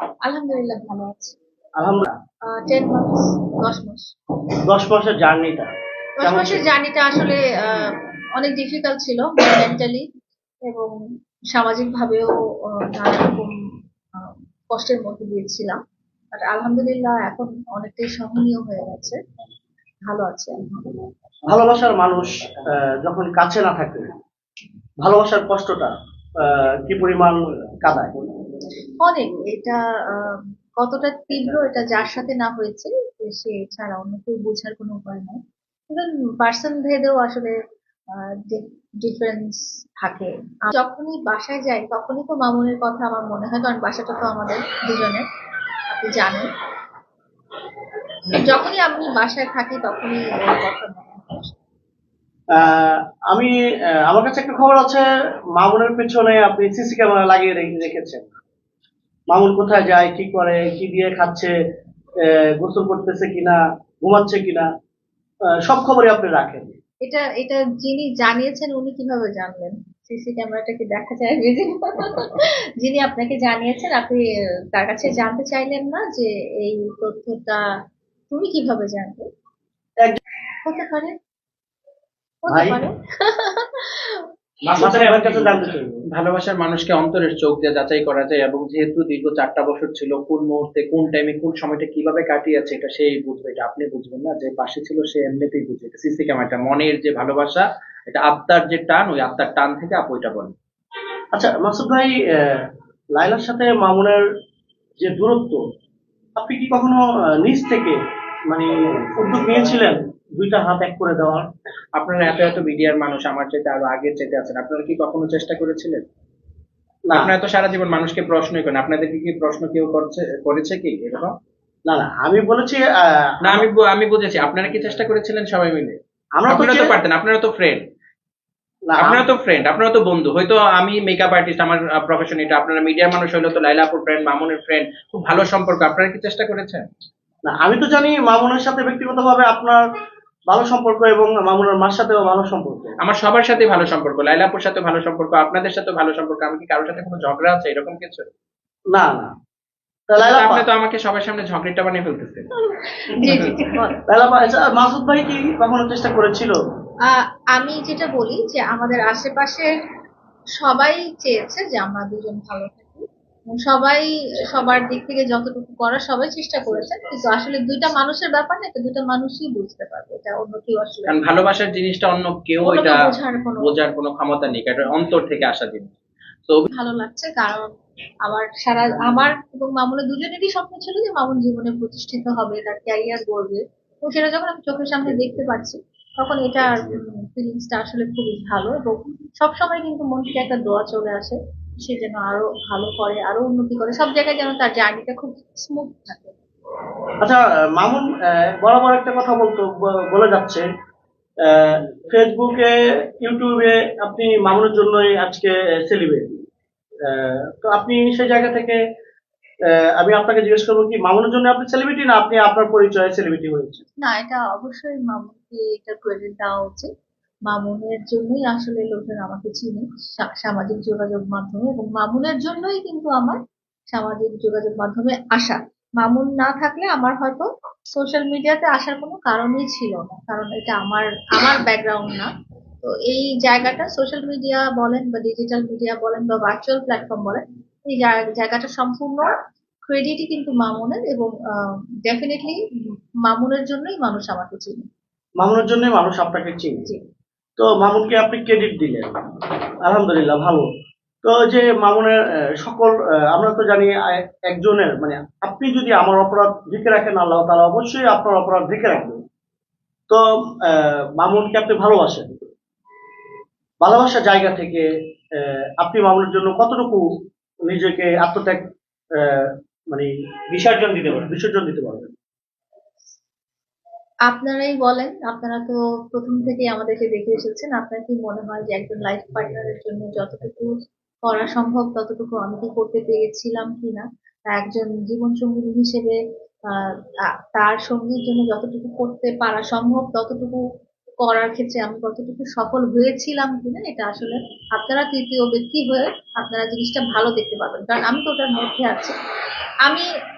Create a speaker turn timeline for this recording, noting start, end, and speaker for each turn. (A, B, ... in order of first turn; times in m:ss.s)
0:00.2-0:01.4 A
0:01.8-0:02.2 B
0:02.6-0:04.1 A
0:04.7-0:05.7 B
0:06.2-0:06.6 B
0:06.2-0:10.0 A
0:10.7-0:11.0 A
0:11.5-0:13.5 A
0:14.2-0:15.8 A
0:16.3-0:19.2 A
0:20.1-0:20.9 A
0:21.5-0:24.1 B
0:25.0-0:28.2 B
0:29.0-0:37.6 A
0:38.2-0:45.2 A
0:45.9-0:46.5 A
0:48.3-0:51.5 A
0:52.5-0:58.2 B
0:59.3-1:01.5 B
1:02.2-1:04.7 B
1:05.6-1:06.8 B
1:07.0-1:14.2 A
1:14.7-1:17.6 A
1:18.3-1:19.2 A
1:20.6-1:21.1 A
1:22.4-1:24.3 A
1:22.5-1:22.8 B
1:24.7-1:25.6 C
1:24.8-1:26.0 B
1:26.1-1:40.5 C
1:41.3-1:44.2 B
1:45.0-1:45.6 B
1:46.4-1:51.5 B
1:52.0-1:56.0 C
1:57.1-1:57.3 B
1:57.1-2:01.3 C
2:01.9-2:03.7 B
2:03.4-2:06.0 C
2:06.4-2:07.0 B
2:06.5-2:07.8 C
2:08.9-2:09.2 B
2:09.0-2:16.8 C
2:17.5-2:19.8 B
2:20.5-2:23.0 B
2:23.0-2:28.3 C
2:28.9-2:29.3 B
2:30.1-2:30.7 B
2:30.2-2:32.5 C
2:32.7-2:34.0 A
2:33.2-2:33.7 C
2:34.1-2:36.6 B
2:37.1-2:39.7 A
2:40.6-2:51.2 A
2:51.1-2:53.0 C
2:52.6-2:53.8 A
2:53.6-2:55.9 C
2:56.7-2:57.7 A
2:58.2-3:16.3 A
3:17.2-3:20.7 B
3:21.4-3:26.4 B
3:27.1-3:28.8 B
3:29.8-3:33.8 B
3:34.0-3:36.9 A
3:37.5-3:43.4 A
3:43.9-3:52.3 A
3:52.8-3:59.3 A
3:59.9-4:02.6 A
4:03.3-4:04.9 A
4:05.4-4:06.8 B
4:07.6-4:09.2 B
4:09.8-4:10.7 B
4:11.2-4:19.2 B
4:20.1-4:22.5 B
4:23.8-4:24.9 B
4:25.4-4:27.1 B
4:27.7-4:32.1 B
4:34.3-4:40.7 A
4:41.2-4:46.2 A
4:46.7-4:47.0 A
4:47.5-4:50.6 A
4:51.2-4:59.2 A